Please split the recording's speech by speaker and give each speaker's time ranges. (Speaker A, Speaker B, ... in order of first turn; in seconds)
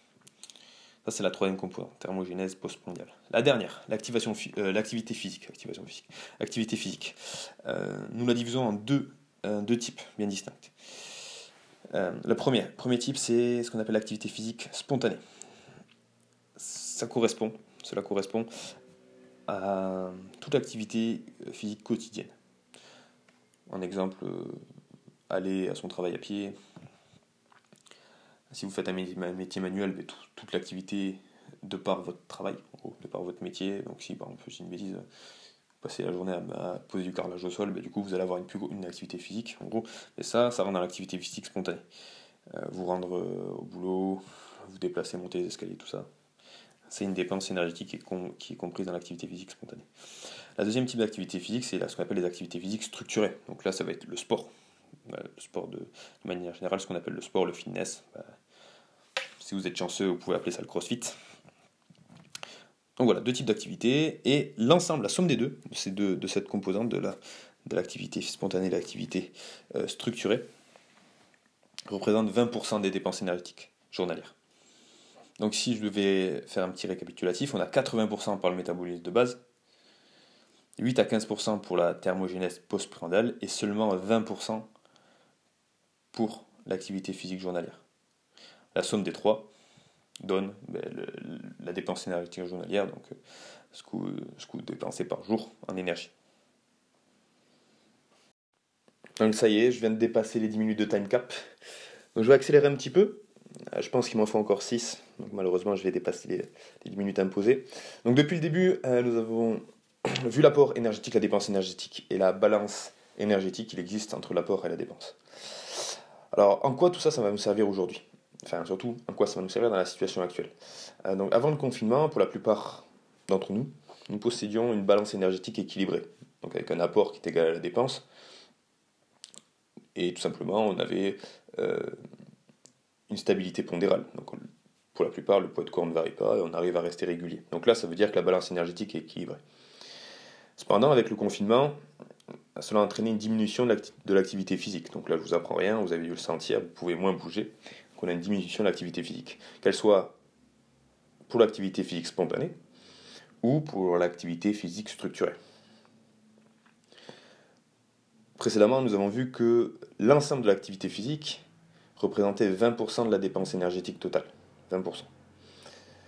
Speaker A: 1.0-10.7, 11.9-15.2, 16.6-18.5, 19.5-22.3, 23.7-24.6, 25.3-26.6, 28.5-35.0, 35.8-41.8, 42.5-46.1, 46.9-49.9, 50.6-54.5, 55.0-58.3, 59.4-61.1, 63.0-70.4, 71.9-74.3, 75.4-79.4, 80.8-84.7, 86.1-87.8, 88.7-89.5, 90.2-93.1, 93.7-96.1, 99.2-101.3, 102.1-115.8, 116.3-120.5, 121.0-128.0, 129.9-131.9, 133.1-139.4, 140.6-141.7, 142.6-150.2, 151.3-152.5, 153.4-155.4, 158.4-161.4, 162.0-165.1